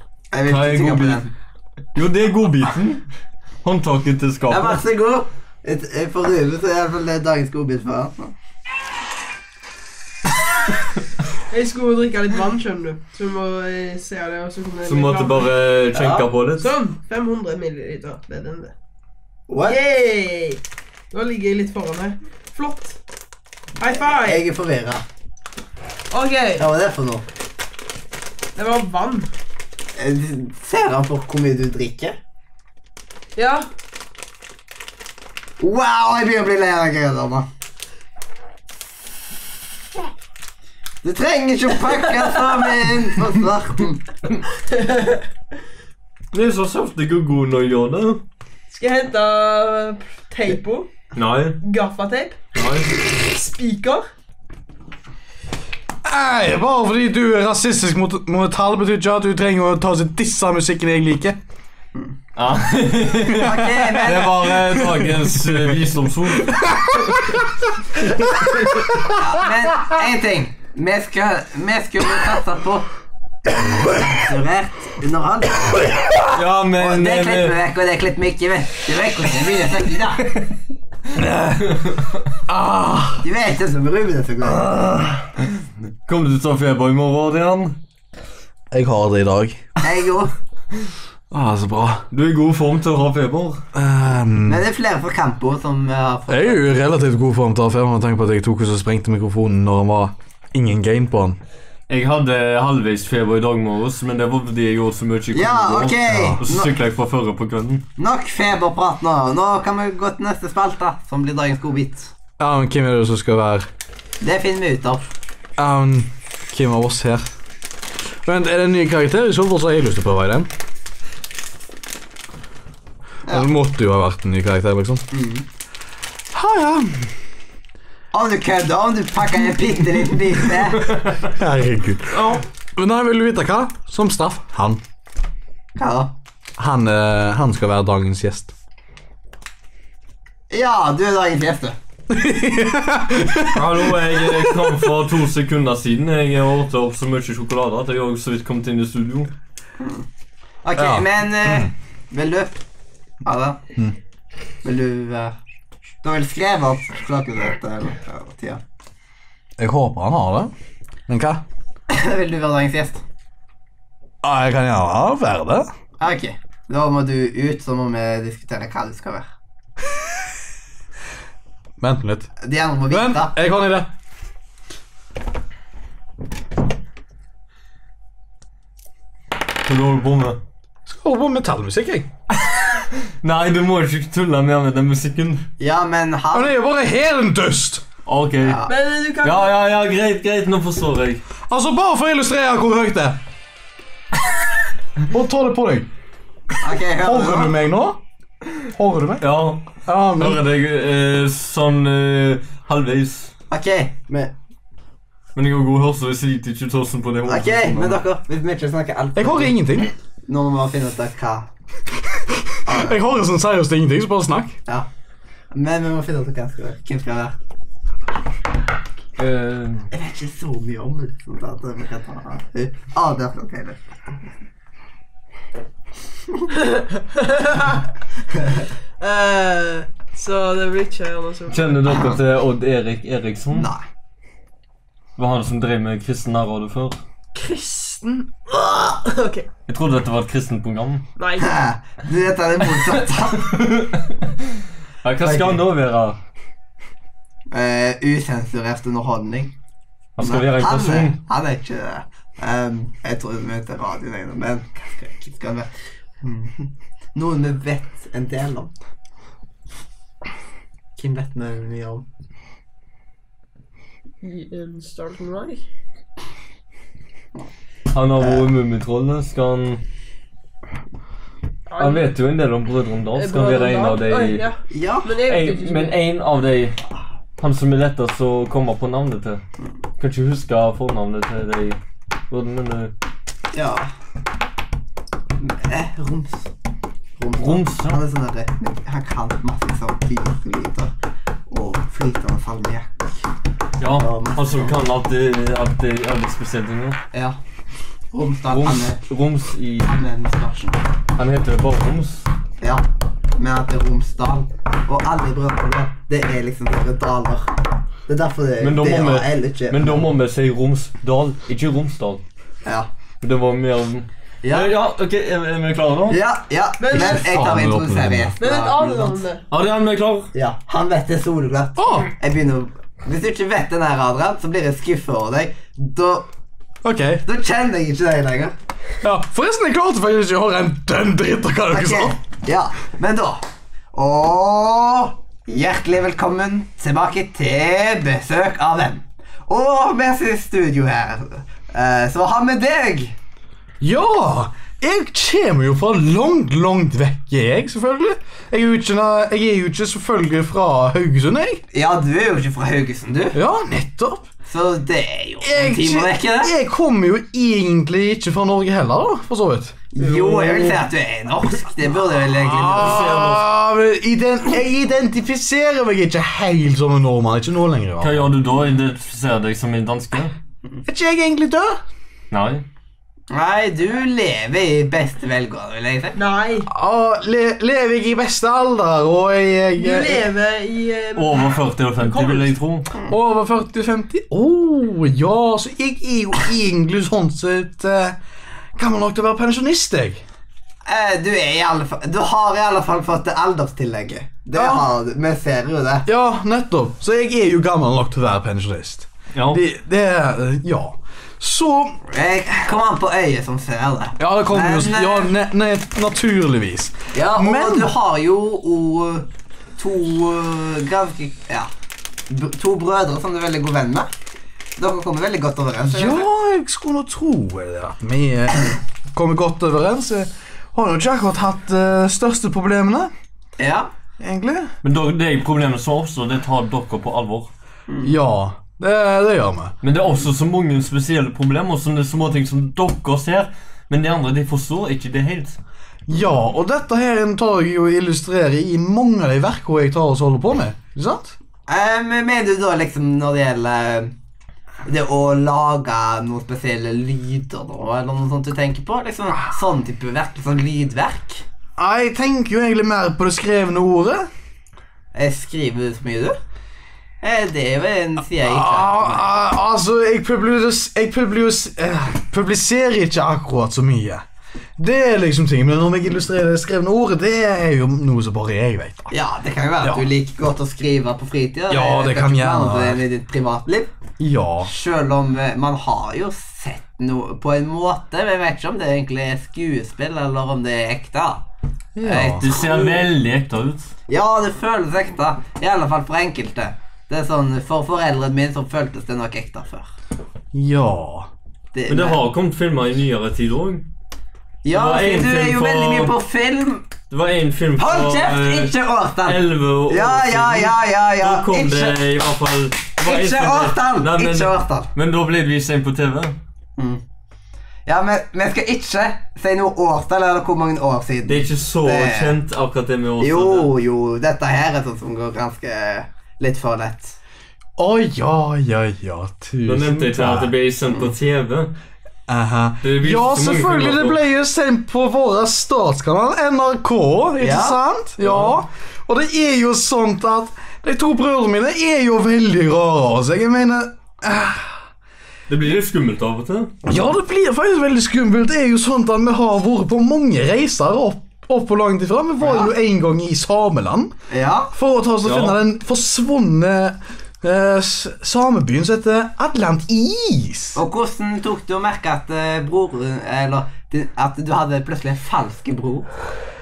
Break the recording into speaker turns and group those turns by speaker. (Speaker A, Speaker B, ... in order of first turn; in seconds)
Speaker A: 0.3-1.3, 4.5-8.3, 15.9-16.2, 19.5-19.8, 23.9-25.0, 26.6-27.2, 30.0-32.2, 35.6-37.5, 41.0-44.2, 63.3-64.6, 69.1-72.9, 74.0-80.3, 83.2-84.8, 89.8-90.3, 94.5-96.7, 105.3-106.7, 108.0-112.1, 114.2-115.1, 125.1-125.5, 128.1-131.0, 135.8-136.1, 140.5-141.8, 149.8-150.1, 150.6-152.6, 153.2-153.6, 154.6-155.4, 156.0-158.6, 161.9-163.0, 166.0-169.3, 172.4-173.3, 185.6-186.5, 188.4-188.7, 196.6-197.5, 203.5-204.3, 207.3-211.5, 212.7-213.0, 215.5-217.3, 219.9-223.8, 231.9-232.2, 233.5-233.8, 241.4-243.6, 245.2-245.6, 247.5-249.5, 250.2-255.7, 256.2-258.7, 261.0-262.1, 268.2-268.4, 274.7-275.1, 283.5-283.9, 285.4-286.5, 287.2-290.9, 291.5-293.1, 293.9-294.7, 298.1-299.0, 299.9-300.8, 303.4-307.5, 308.1-310.1, 312.6-312.9, 314.4-314.7, 316.1-319.2, 320.3-326.3, 327.3-328.6, 331.7-333.4, 333.9-343.2, 351.7-353.4, 354.5-356.5, 359.9-363.2, 373.3-376.2, 390.9-396.1, 402.1-405.3, 407.1-411.7, 412.3-414.1, 414.8-416.2, 423.6-423.9, 427.9-428.1, 441.7-444.1, 444.9-451.4, 455.1-456.4, 457.2-459.3, 469.1-473.9, 474.7-481.4, 482.0-483.0, 484.1-489.9, 491.7-492.2, 494.6-496.9, 497.8-502.0, 503.0-504.9, 507.9-512.4, 513.2-517.2, 527.4-527.8, 542.4-542.7, 544.3-544.7, 550.8-556.1
Speaker B: 0.5-1.3, 1.9-3.0, 3.6-4.8, 14.8-16.7, 46.3-48.2, 51.1-51.6, 52.5-52.9, 62.4-66.7, 76.3-77.6, 86.1-87.8, 92.1-93.6, 101.9-107.9, 143.5-149.3, 179.7-180.4, 182.3-185.5, 188.1-188.7, 189.2-191.2, 199.2-203.3, 205.3-208.0, 219.2-219.9, 231.5-233.7, 235.2-237.0, 239.7-241.1, 243.4-244.3, 245.0-246.2, 250.2-251.2, 267.9-269.8, 271.8-274.4, 275.2-276.8, 277.4-279.4, 280.0-281.8, 282.3-282.9, 287.4-288.0, 293.8-297.0, 298.5-299.9, 301.2-302.3, 308.6-312.2, 313.2-316.2, 319.5-320.3, 360.0-360.8, 362.7-363.4, 368.0-370.3, 372.3-372.6, 381.2-382.9, 399.4-399.6, 424.8-427.5, 429.8-435.6, 482.3-483.9, 491.9-493.9, 494.7-496.1, 497.1-506.4, 511.3-513.7, 519.7-521.7, 522.8-524.2, 528.2-528.6, 535.5-536.7, 545.2-545.6
Speaker C: 11.5-15.5, 16.6-18.7, 19.6-20.6, 21.1-23.0, 23.8-24.4, 26.1-26.7, 28.6-29.3, 33.4-33.7, 44.6-45.2, 48.7-50.9, 51.6-52.4, 53.0-54.1, 188.7-189.5, 226.6-227.8, 229.0-231.7, 237.3-239.5, 241.2-241.6, 264.2-265.6, 271.7-272.1, 273.2-276.0, 316.8-317.4, 318.4-319.4, 376.1-376.7, 379.8-382.5
Speaker D: 56.0-61.4, 63.3-65.7, 66.4-67.7, 68.3-69.2, 73.6-74.1, 81.2-81.9, 82.5-83.3, 88.7-89.8, 91.3-92.1, 93.7-94.6, 96.3-101.4, 106.1-106.4, 112.4-113.7, 115.6-117.3, 118.2-120.5, 123.3-125.1, 126.3-127.1, 131.3-134.8, 136.6-138.5, 142.1-144.7, 150.8-151.7, 159.6-160.5, 161.1-161.4, 164.2-165.7, 171.8-172.3, 172.9-173.9, 180.9-182.1, 186.3-187.8, 191.5-193.2, 195.0-195.9, 196.9-198.0, 198.7-200.4, 209.2-209.9, 212.5-214.6, 316.9-318.4, 321.8-322.1, 326.8-327.2, 329.0-332.1, 343.8-351.6, 353.3-354.3, 355.4-359.8, 362.3-368.3, 370.9-371.8, 376.7-380.2, 383.1-388.2, 388.8-390.2, 394.5-394.9, 396.1-402.0, 404.2-407.9, 415.9-423.1, 424.2-424.7, 428.0-429.7, 436.1-441.4, 451.8-454.3, 458.4-464.2, 464.8-469.1, 469.8-470.1, 471.7-473.0, 474.2-474.7, 481.9-482.4, 490.5-491.3, 517.8-520.5, 522.3-534.9, 536.9-544.1, 544.7-550.8